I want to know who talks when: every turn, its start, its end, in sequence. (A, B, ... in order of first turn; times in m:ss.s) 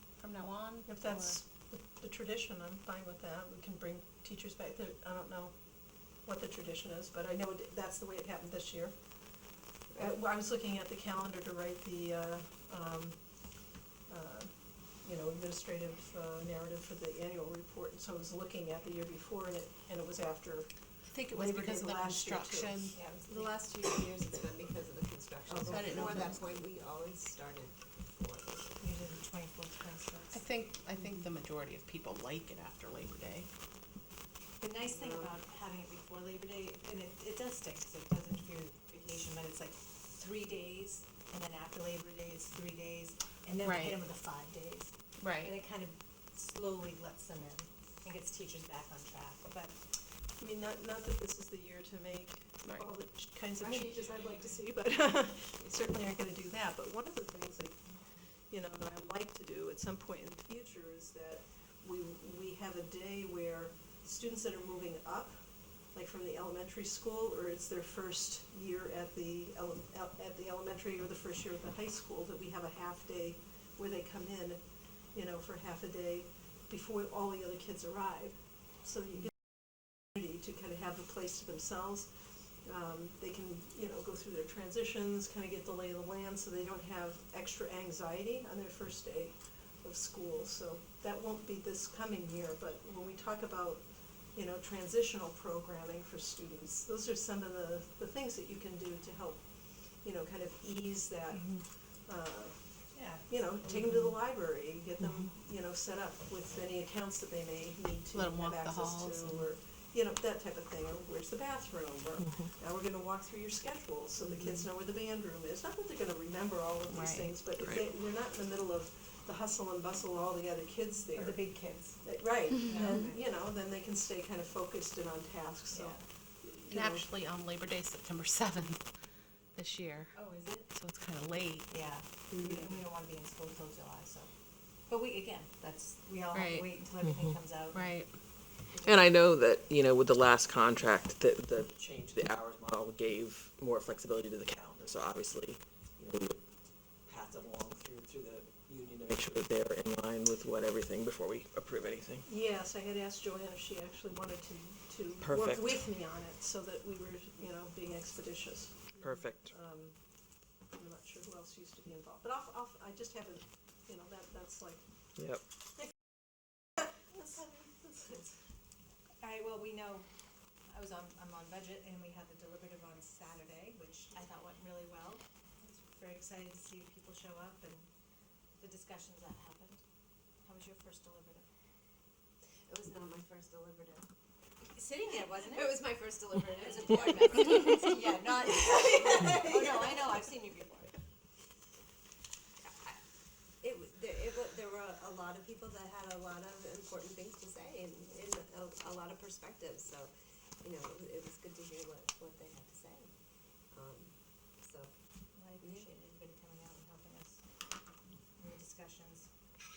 0:00.2-0:01.4 A
0:00.9-0:05.5 B
0:06.2-0:09.0 B
0:09.9-0:13.2 B
0:14.1-0:20.7 B
0:21.1-0:23.0 A
0:21.3-0:23.0 B
0:23.0-0:23.5 C
0:23.3-0:28.9 D
0:25.5-0:26.2 C
0:25.6-0:26.5 A
0:28.8-0:30.4 C
0:30.3-0:33.5 A
0:34.6-0:49.8 C
0:34.8-0:35.4 D
0:43.6-0:44.0 A
0:45.2-0:45.6 A
0:50.4-0:57.8 B
0:53.7-0:54.4 C
0:58.5-1:14.6 B
1:15.1-1:22.1 B
1:22.6-1:39.4 B
1:40.0-1:42.6 B
1:41.4-1:41.6 A
1:42.9-1:43.2 C
1:43.3-2:01.4 B
1:48.1-1:49.5 A
1:56.9-1:57.8 A
2:01.2-2:02.0 C
2:02.0-2:07.1 B
2:02.6-2:03.2 C
2:05.7-2:06.0 C
2:06.7-2:08.8 A
2:09.5-2:10.2 A
2:10.1-2:10.7 C
2:10.7-2:11.7 A
2:11.7-2:14.3 C
2:14.9-2:17.9 C
2:16.3-2:16.7 A
2:17.7-2:18.1 A
2:18.8-2:26.4 E
2:27.1-2:32.2 E
2:32.3-2:40.0 B
2:35.2-2:35.8 E
2:39.0-2:39.5 E
2:40.7-2:44.8 B
2:45.2-2:45.4 E
2:47.4-2:48.3 B
2:49.2-2:50.1 C
2:50.7-2:57.9 C
2:58.6-2:59.8 C
3:00.4-3:01.5 C
3:02.7-3:04.1 D
3:04.7-3:05.9 C
3:05.2-3:10.5 D
3:06.5-3:10.9 C
3:12.6-3:13.0 D
3:13.6-3:20.1 D
3:20.6-3:23.1 D
3:23.7-3:24.9 D
3:25.4-3:27.4 C
3:25.6-3:25.9 D
3:28.4-3:29.3 C